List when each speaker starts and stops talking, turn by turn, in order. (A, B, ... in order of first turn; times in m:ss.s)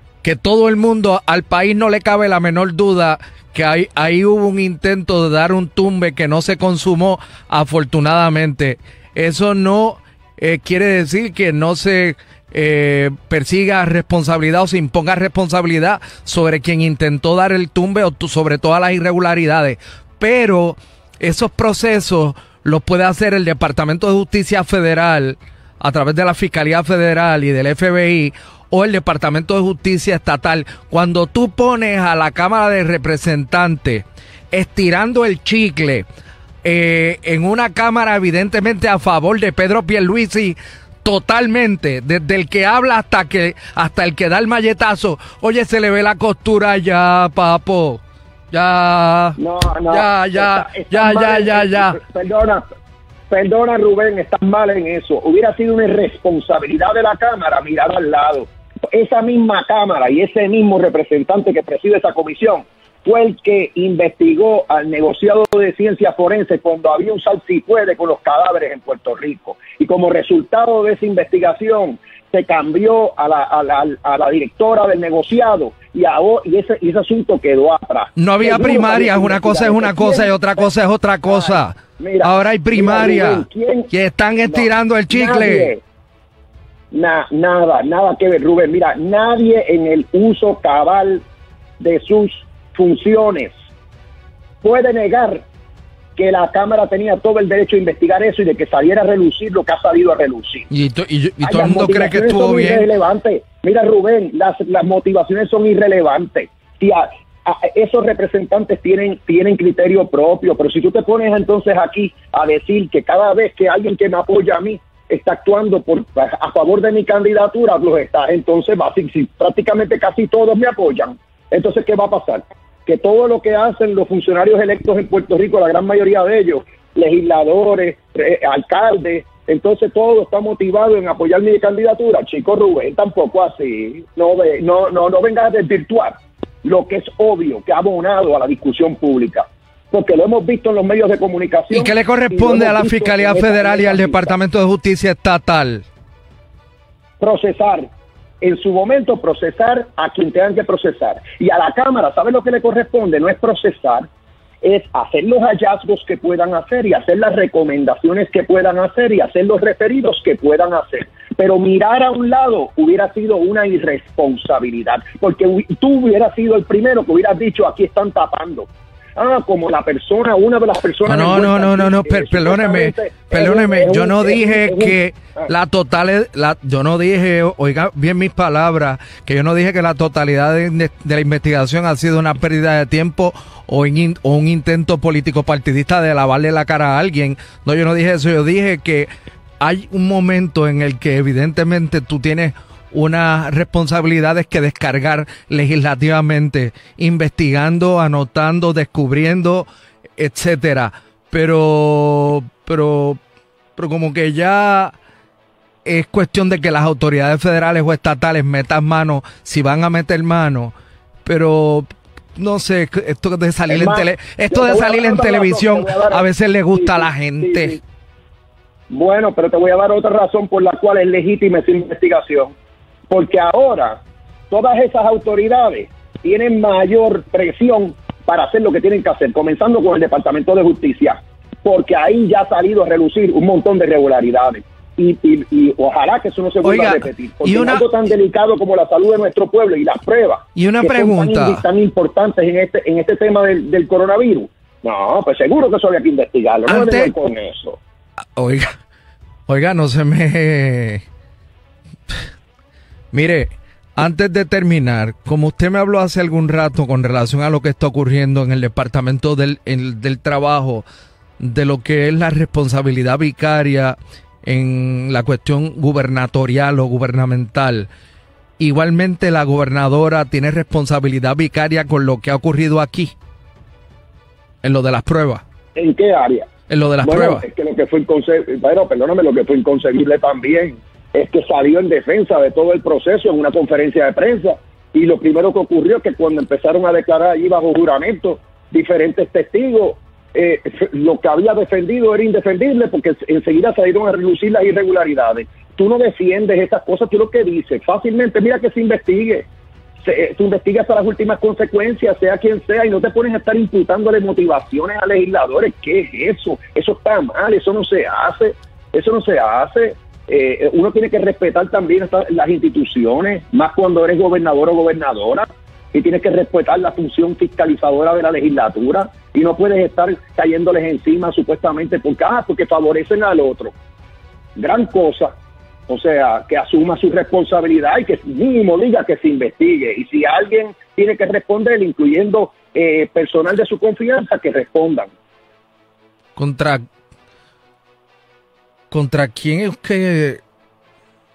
0:00.2-0:36.1 A
0:36.6-0:48.0 A
0:48.5-0:49.4 A
0:49.4-0:52.6 B
0:49.9-0:52.0 A
0:53.3-1:20.7 B
1:18.2-1:25.7 A
1:21.2-1:23.9 B
1:24.4-1:25.8 B
1:26.9-1:31.2 B
1:31.8-1:33.6 B
1:34.6-1:35.5 B
1:36.2-1:40.7 B
1:40.7-1:42.9 A
1:41.4-2:24.4 B
2:21.7-2:25.8 A
2:27.2-2:27.9 B
2:28.4-2:34.1 B
2:34.6-2:55.5 B
2:51.0-3:19.7 A
3:20.2-3:23.2 A
3:23.8-3:25.0 A
3:25.8-3:30.7 A
3:31.2-3:37.8 A
3:33.7-3:37.8 B
3:38.9-3:42.6 B
3:43.1-4:07.8 B
3:56.6-3:57.9 A
4:00.6-4:01.6 A
4:06.7-4:07.1 A
4:08.4-4:08.7 A
4:09.5-4:11.0 A
4:13.1-4:20.8 A
4:21.4-4:27.9 A
4:28.6-4:33.2 A
4:34.6-4:35.4 A
4:35.8-4:36.5 B
4:36.7-4:37.4 A
4:37.0-4:59.5 B
5:00.0-5:23.8 B
5:24.6-5:25.3 B
5:25.9-5:35.1 B
5:36.4-5:36.8 A
5:38.9-5:40.4 A